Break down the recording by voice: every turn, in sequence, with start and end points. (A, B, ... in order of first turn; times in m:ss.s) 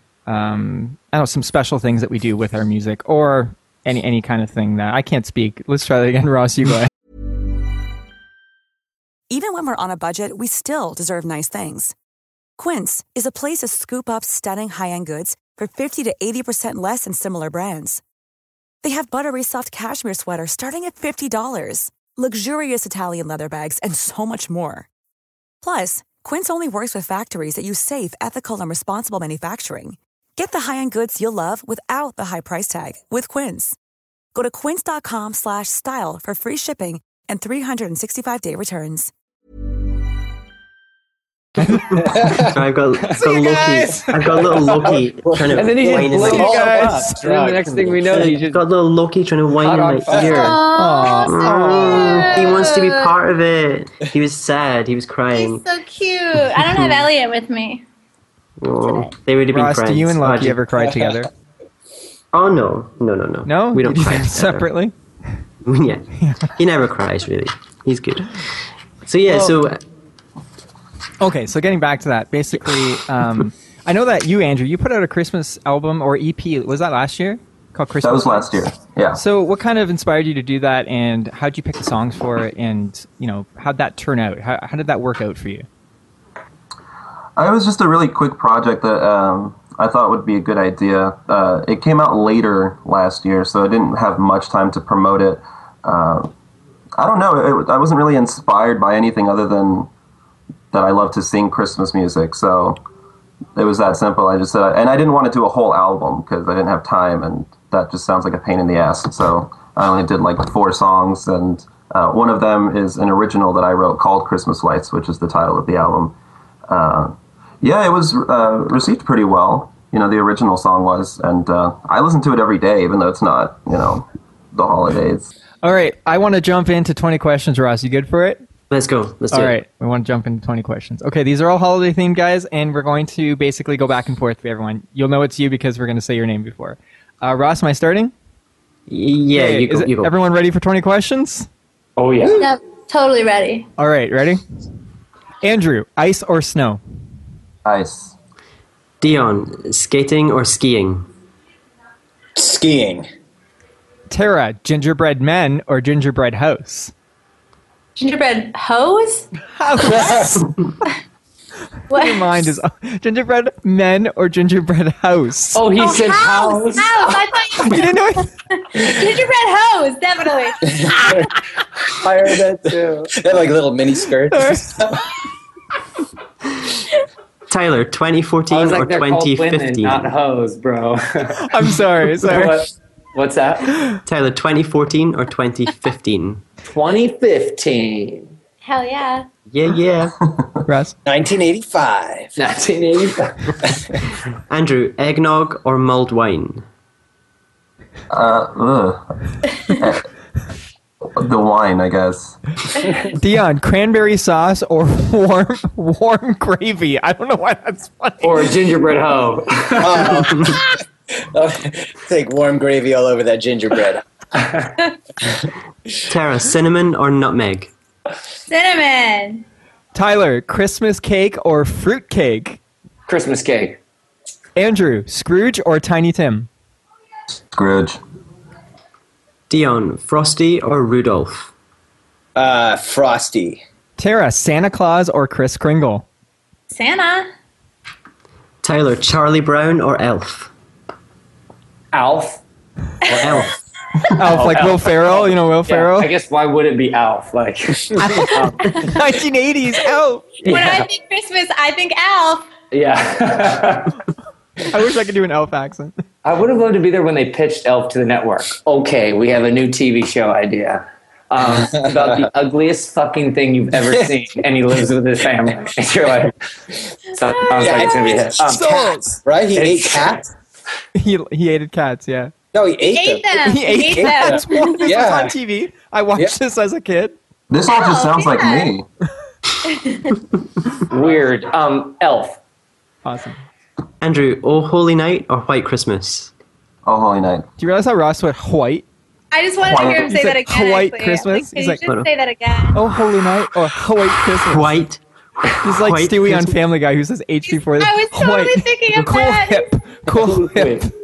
0:00.3-0:06.9 A
0:09.3-0:11.9 B
0:12.6-0:18.0 B
0:18.8-0:24.9 B
0:25.6-0:33.8 B
0:34.3-0:39.1 B
0:41.9-0:46.5 C
0:42.0-0:42.5 D
0:43.2-0:44.2 A
0:44.8-0:48.3 D
0:45.5-0:48.6 E
0:46.2-0:47.2 A
0:48.1-0:50.6 C
0:49.6-0:50.6 E
0:50.1-0:50.5 D
0:50.4-0:53.1 F
0:50.7-0:52.4 A
0:51.3-0:55.6 C
0:55.3-0:57.8 F
0:58.6-1:00.6 C
0:59.5-1:01.3 A
1:02.3-1:04.7 C
1:03.5-1:04.9 A
1:05.6-1:08.5 C
1:09.0-1:09.8 C
1:09.3-1:09.6 A
1:11.2-1:25.7 A
1:18.0-1:19.2 G
1:27.4-1:36.3 G
1:37.0-1:39.9 G
1:40.7-1:42.8 G
1:43.6-1:56.2 G
1:56.7-2:05.3 G
2:05.6-2:08.4 A
2:08.7-2:09.6 C
2:09.3-2:18.1 A
2:18.9-2:20.1 C
2:19.3-2:21.5 A
2:22.0-2:22.4 E
2:22.4-2:23.7 F
2:23.8-2:24.4 A
2:25.4-2:26.8 A
2:27.6-2:28.2 G
2:29.0-2:31.1 C
2:32.4-2:33.1 D
2:34.1-2:36.9 A
2:38.0-2:39.3 F
2:39.5-2:40.6 A
2:41.9-2:42.2 F
2:41.9-2:45.6 A
2:45.6-2:47.2 E
2:45.8-2:47.9 F
2:47.6-2:48.3 A
2:48.5-2:51.1 F
2:50.6-2:51.3 D
2:52.0-2:53.1 E
2:52.2-2:55.1 D
2:54.3-2:54.8 A
2:57.5-3:00.1 C
2:58.5-3:01.7 E
3:01.4-3:02.6 A
3:02.2-3:03.8 E
3:04.1-3:06.4 C
3:06.7-3:08.3 E
3:08.6-3:09.3 F
3:09.5-3:10.2 C
3:10.7-3:11.0 A
3:11.0-3:12.3 D
3:12.4-3:13.7 E
3:14.5-3:16.6 C
3:18.1-3:20.1 G
3:21.1-3:22.9 G
3:23.2-3:28.5 A
3:28.2-3:30.4 E
3:29.8-3:30.6 D
3:31.2-3:34.0 D
3:36.1-3:37.7 C
3:38.5-3:39.4 F
3:39.9-3:42.6 A
3:43.1-3:43.8 E
3:44.6-3:46.5 A
3:47.5-3:48.0 G
3:49.5-3:51.5 C
3:52.4-3:53.6 D
3:54.0-3:56.1 A
3:56.7-3:57.3 F
3:58.6-4:00.5 C
4:01.9-4:02.4 E
4:03.0-4:03.3 F
4:03.1-4:03.5 E
4:03.2-4:03.5 C
4:04.1-4:06.1 A
4:04.2-4:09.0 E
4:08.0-4:10.3 A
4:08.7-4:09.0 F
4:10.4-4:10.9 E
4:10.5-4:12.5 F
4:12.7-4:14.0 E
4:14.7-4:16.0 A
4:16.2-4:26.4 E
4:21.8-4:22.2 D
4:27.1-4:28.6 E
4:27.5-4:28.1 F
4:27.6-4:30.3 D
4:28.4-4:29.2 A
4:29.6-4:30.2 E
4:31.0-4:32.3 A
4:32.5-4:35.4 D
4:32.9-4:34.9 F
4:33.4-4:37.2 A
4:37.5-4:38.8 G
4:37.7-4:38.7 F
4:39.6-4:40.2 F
4:40.9-4:42.4 E
4:43.0-4:43.4 A
4:44.0-4:46.3 C
4:46.8-4:47.5 G
4:47.6-4:48.9 A
4:49.3-4:52.8 F
4:49.6-4:50.1 G
4:49.9-4:51.8 A
4:52.7-4:54.8 A
4:54.5-4:56.6 C
4:55.6-5:00.9 A
4:57.8-4:59.7 F
5:00.1-5:00.9 E